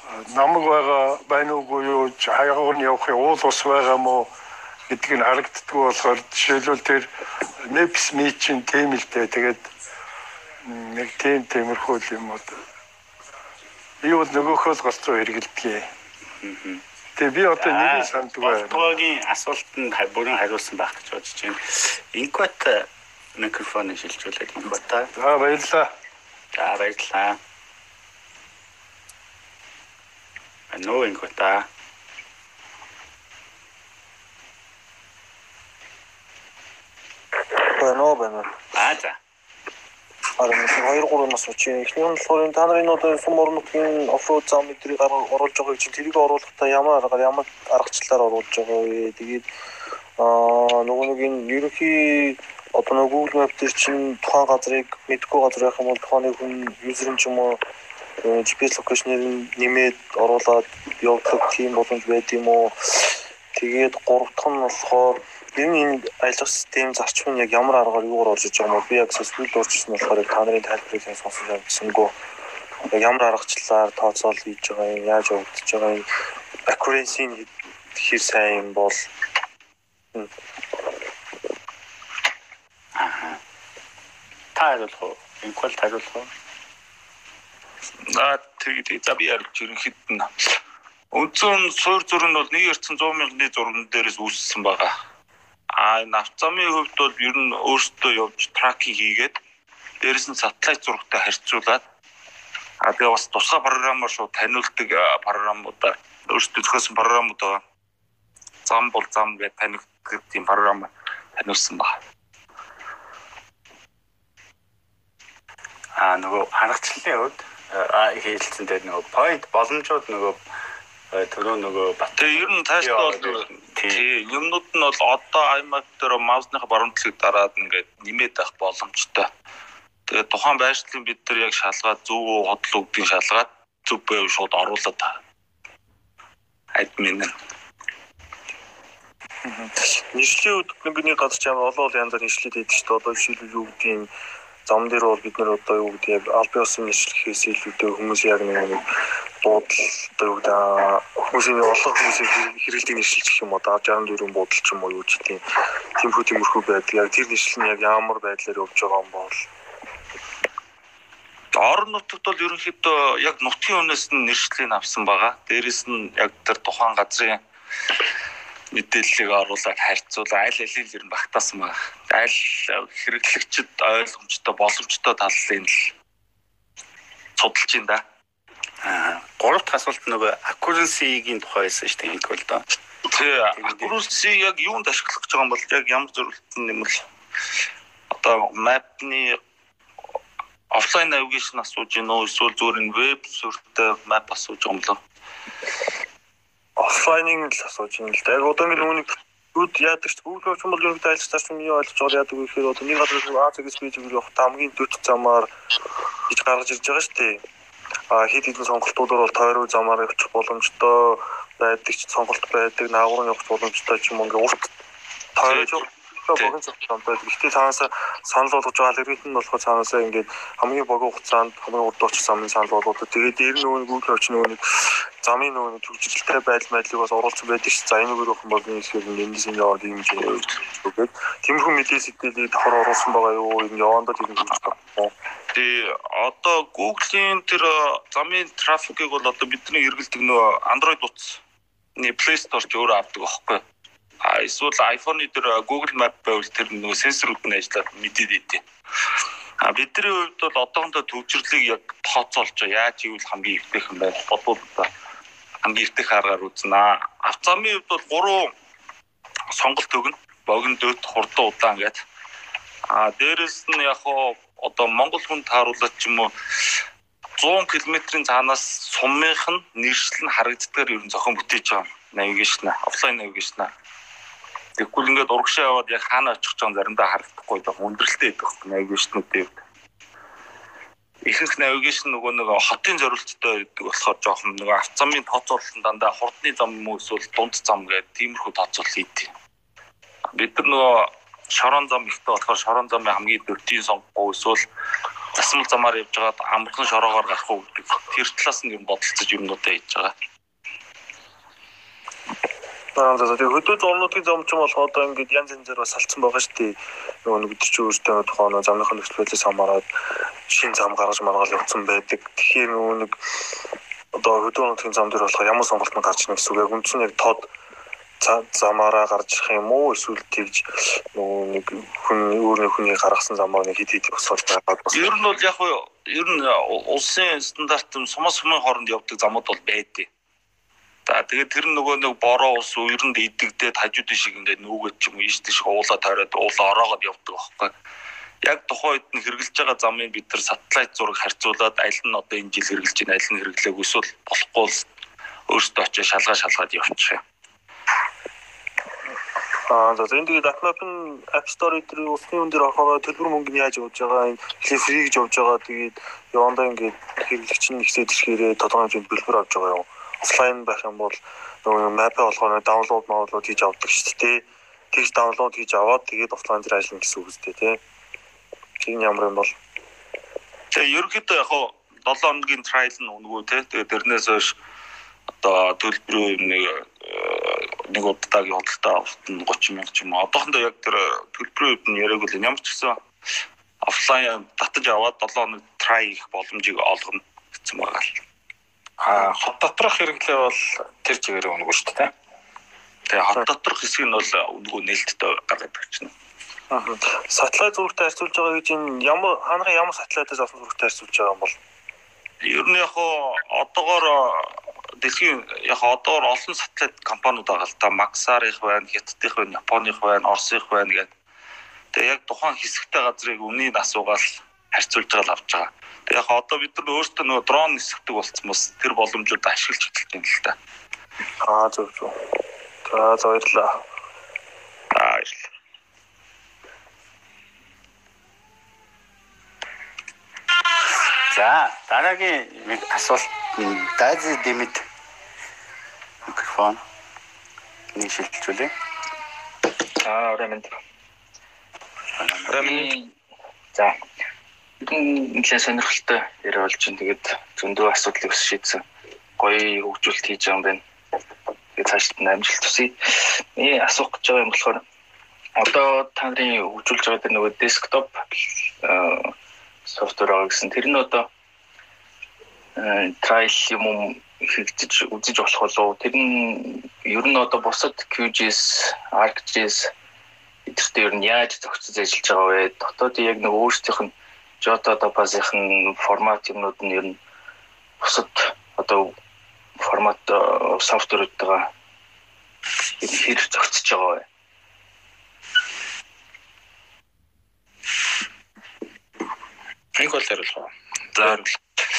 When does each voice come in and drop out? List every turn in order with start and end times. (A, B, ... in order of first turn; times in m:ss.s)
0:00.3-0:04.3 A
0:04.9-0:07.1 A
0:07.6-0:09.7 A
0:10.6-0:12.6 A
0:14.0-0:15.9 A
0:16.4-0:16.8 B
0:17.2-0:18.9 A
0:17.6-0:25.1 B
0:25.2-0:25.9 A
0:26.5-0:27.4 B
0:30.7-0:31.7 B
0:37.6-0:38.5 C
0:38.7-0:39.2 B
0:40.4-0:49.4 C
0:50.2-0:57.6 C
0:58.2-1:12.2 C
1:12.9-1:16.1 C
1:16.7-1:19.1 C
1:23.0-1:23.4 B
1:24.6-1:26.3 B
1:28.0-1:30.5 D
1:31.1-1:35.0 D
1:35.7-1:39.4 D
1:40.0-1:41.8 D
1:42.8-1:47.6 D
1:48.6-1:52.0 D
1:56.0-2:00.4 B
2:01.1-2:04.1 B
2:02.2-2:09.3 D
2:10.1-2:15.2 D
2:16.8-2:17.3 D
2:19.5-2:24.1 C
2:24.7-2:28.9 C
2:29.4-2:35.4 C
2:36.0-2:39.5 C
2:41.6-2:47.4 D
2:48.7-2:55.9 D
2:57.4-2:58.0 D
2:58.8-3:02.6 B
3:03.1-3:07.0 D
3:03.5-3:04.0 B
3:08.1-3:09.4 D
3:10.7-3:15.0 D
3:16.8-3:25.5 C
3:26.3-3:27.4 C
3:28.1-3:34.7 C
3:35.4-3:44.6 C
3:45.2-3:55.1 C
3:55.5-4:01.4 D
4:02.0-4:03.6 D
4:04.2-4:08.6 D
4:09.6-4:14.9 D
4:15.6-4:18.5 D
4:19.5-4:22.0 D
4:22.9-4:26.8 D
4:27.4-4:33.7 D
4:34.8-4:39.6 D
4:41.2-4:49.3 D
4:50.4-4:54.6 D
4:55.4-5:00.1 D
5:03.0-5:09.9 C
5:10.5-5:13.2 C
5:14.2-5:17.5 C
5:18.2-5:25.1 C
5:24.9-5:30.1 D
5:31.1-5:37.8 D
5:38.4-5:44.9 D
5:45.5-5:47.2 D
5:49.7-6:07.8 C
6:08.8-6:09.6 C
6:10.7-6:14.6 D
6:15.4-6:23.0 D
6:23.8-6:28.2 D
6:29.0-6:32.1 E
6:33.1-6:36.1 D
6:36.7-6:41.6 C
6:42.4-6:51.1 D
6:51.9-7:00.6 D
7:01.4-7:02.2 C
7:02.9-7:03.8 C
7:04.9-7:05.5 D
7:11.3-7:14.9 B
7:16.3-7:16.8 B
7:17.9-7:18.7 B
7:20.0-7:20.8 F
7:22.2-7:22.5 B
7:22.5-7:22.9 D
7:22.6-7:22.9 F
7:24.8-7:28.8 F
7:29.4-7:30.8 F
7:31.8-7:34.8 F
7:35.6-7:38.2 F
7:38.8-7:39.3 F
7:39.9-7:41.3 F
7:42.8-7:49.9 F
7:50.7-7:57.2 F
7:58.0-7:59.1 F
7:59.8-8:01.7 F
8:03.0-8:04.3 F
8:10.0-8:11.5 E
8:11.2-8:11.8 D